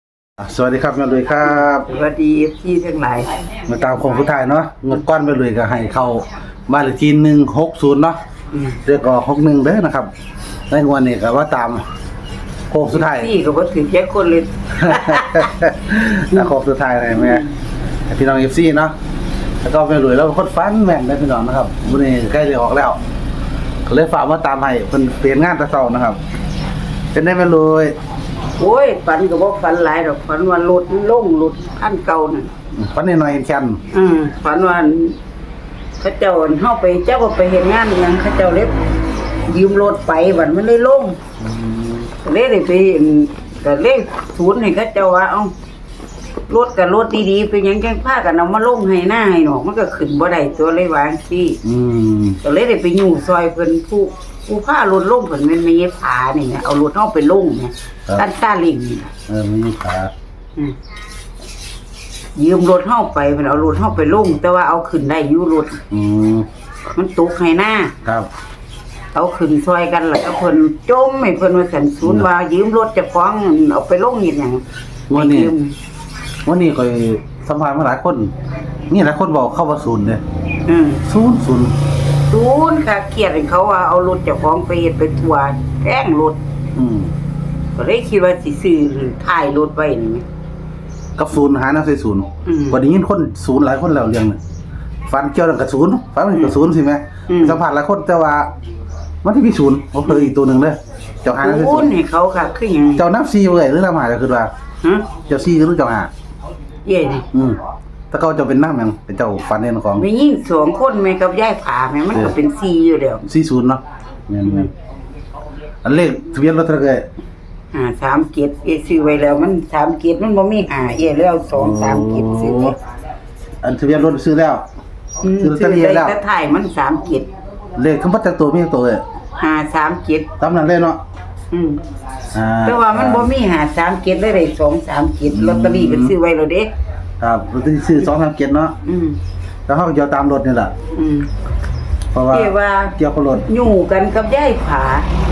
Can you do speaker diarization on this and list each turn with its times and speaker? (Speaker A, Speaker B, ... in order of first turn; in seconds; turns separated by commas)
Speaker A: 0.4-1.9, Speaker B: 1.4-3.4, Speaker A: 3.6-8.2, Speaker B: 8.5-8.8, Speaker A: 8.8-10.1, Speaker A: 10.7-11.8, Speaker A: 12.7-13.3, Speaker B: 12.9-15.5, Speaker A: 14.8-17.5, Speaker B: 17.1-17.5, Speaker A: 18.1-18.9, Speaker A: 19.6-23.0, Speaker A: 23.9-26.2, Speaker A: 27.1-27.9, Speaker B: 28.6-32.5, Speaker A: 32.7-33.8, Speaker B: 33.9-35.2, Speaker B: 36.0-38.7, Speaker B: 39.5-41.2, Speaker A: 41.4-42.1, Speaker B: 42.2-45.5, Speaker B: 46.5-51.6, Speaker A: 51.6-52.4, Speaker B: 52.4-59.1, Speaker A: 59.3-60.1, Speaker B: 62.4-65.8, Speaker A: 65.9-66.5, Speaker B: 66.9-67.9, Speaker A: 68.0-68.3, Speaker B: 69.1-75.7, Speaker A: 75.1-75.5, Speaker A: 76.4-78.3, Speaker A: 78.9-80.2, Speaker B: 80.7-81.0, Speaker A: 81.0-81.7, Speaker B: 82.3-86.4, Speaker A: 86.7-87.1, Speaker B: 87.8-90.2, Speaker A: 91.2-94.4, Speaker B: 92.5-92.8, Speaker A: 95.1-98.5, Speaker B: 97.3-97.6, Speaker A: 99.2-101.9, Speaker B: 100.0-100.3, Speaker B: 101.4-103.0, Speaker A: 103.0-104.5, Speaker B: 104.8-105.1, Speaker A: 105.2-106.1, Speaker B: 106.8-107.2, Speaker A: 107.3-107.6, Speaker A: 108.1-110.0, Speaker B: 110.0-113.2, Speaker A: 113.2-114.7, Speaker B: 114.4-114.7, Speaker A: 115.8-117.0, Speaker B: 117.7-122.8, Speaker A: 121.5-122.7, Speaker A: 123.6-124.6, Speaker B: 125.2-127.3, Speaker A: 125.4-126.2, Speaker A: 127.8-129.0, Speaker B: 129.4-130.3, Speaker A: 130.4-131.0, Speaker B: 131.5-131.8, Speaker A: 132.3-133.3, Speaker B: 132.6-136.7, Speaker A: 135.3-136.1, Speaker A: 137.2-138.8, Speaker B: 138.8-139.2, Speaker A: 139.7-140.7, Speaker B: 140.9-141.3, Speaker A: 142.1-143.5, Speaker B: 142.3-142.9, Speaker B: 143.5-145.1